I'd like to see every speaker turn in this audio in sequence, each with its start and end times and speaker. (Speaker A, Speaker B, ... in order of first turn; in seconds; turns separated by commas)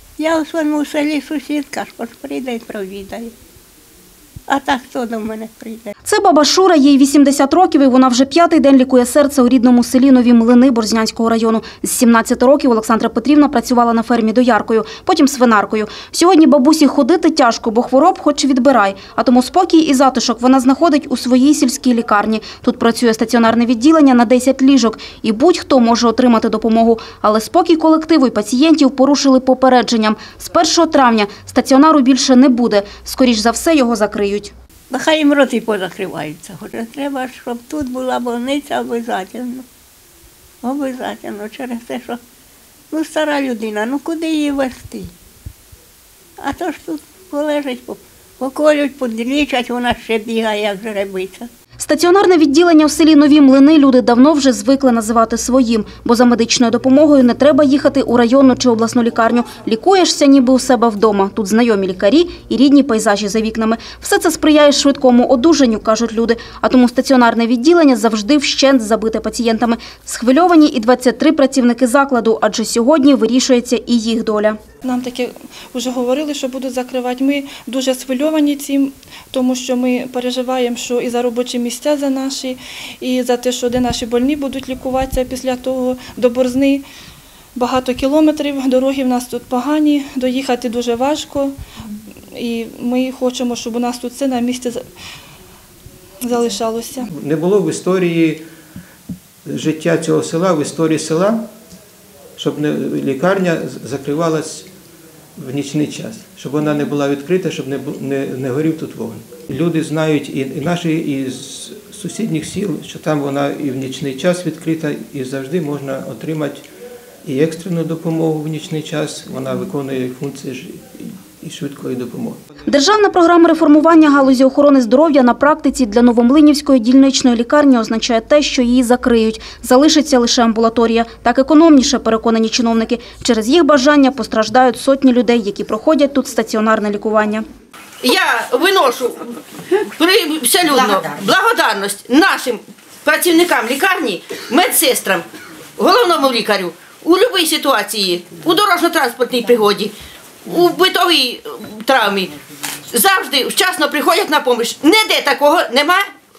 Speaker A: 0.2-3.3, Speaker A: 4.5-5.9, Speaker B: 6.0-34.5, Speaker A: 34.9-39.6, Speaker A: 40.6-42.2, Speaker A: 42.9-45.1, Speaker A: 46.4-51.5, Speaker B: 51.8-74.6, Speaker C: 74.8-86.8, Speaker C: 87.5-91.5, Speaker C: 92.3-94.8, Speaker C: 96.2-97.1, Speaker D: 97.1-98.4, Speaker D: 99.4-101.5, Speaker D: 102.3-104.7, Speaker D: 105.3-116.6, Speaker D: 117.2-122.4, Speaker B: 122.7-137.4, Speaker E: 138.0-139.3, Speaker E: 139.9-145.2, Speaker E: 145.8-149.9, Speaker E: 150.4-152.3, Speaker E: 152.9-156.1